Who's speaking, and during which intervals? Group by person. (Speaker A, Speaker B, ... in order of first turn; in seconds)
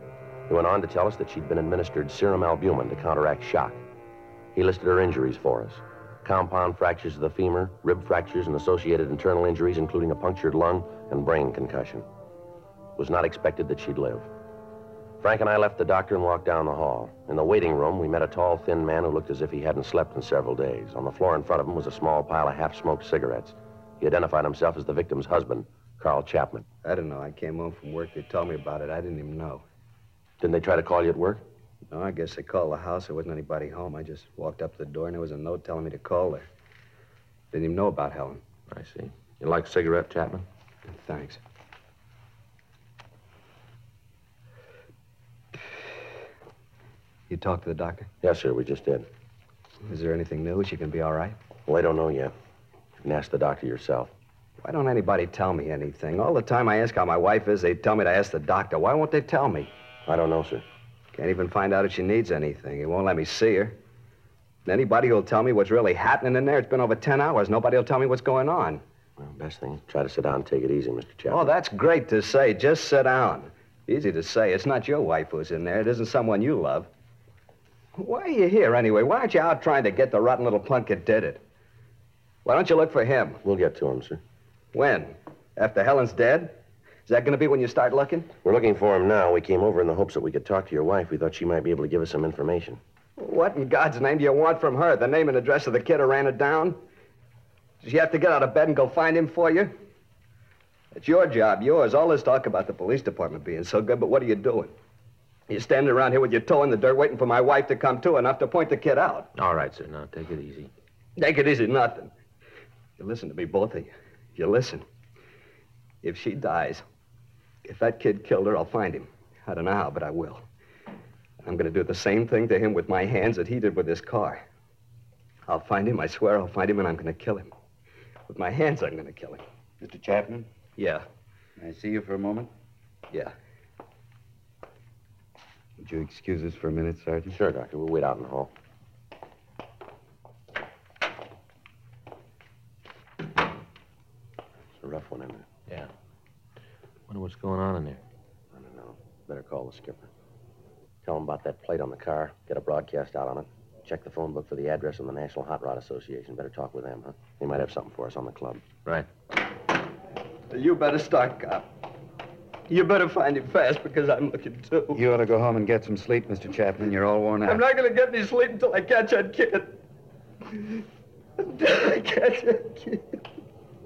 Speaker A: 0.5-3.8, 4.5-12.1, 12.9-14.3, 15.2-26.7, 30.4-31.4, 48.2-49.1, 51.7-52.3, 53.0-54.1, 60.0-60.6, 69.2-71.5, 83.4-84.2, 88.4-92.8, 137.3-138.5, 144.8-145.5, 148.5-150.1, 151.0-158.6
Speaker B: 26.8-29.6, 31.9-36.5, 37.5-38.4, 40.9-41.4, 47.3-48.1, 49.9-51.4, 54.6-59.7, 61.1-63.8, 64.7-68.8, 71.3-76.9, 78.0-81.4, 82.4-83.4, 84.7-86.5, 87.0-88.3, 93.2-96.8, 97.8-99.7, 100.9-104.7, 105.5-109.3, 111.2-112.1, 113.0-114.8, 116.0-116.8, 117.6-120.4, 121.4-124.4, 125.5-127.5, 128.3-129.4, 130.8-131.1, 160.5-161.7, 162.7-165.0, 167.4-169.8, 170.5-170.8, 171.4-173.1
Speaker C: 38.7-40.4, 109.4-110.7, 147.1-148.0
Speaker D: 129.8-130.4, 131.6-132.5, 135.8-137.3, 164.9-167.6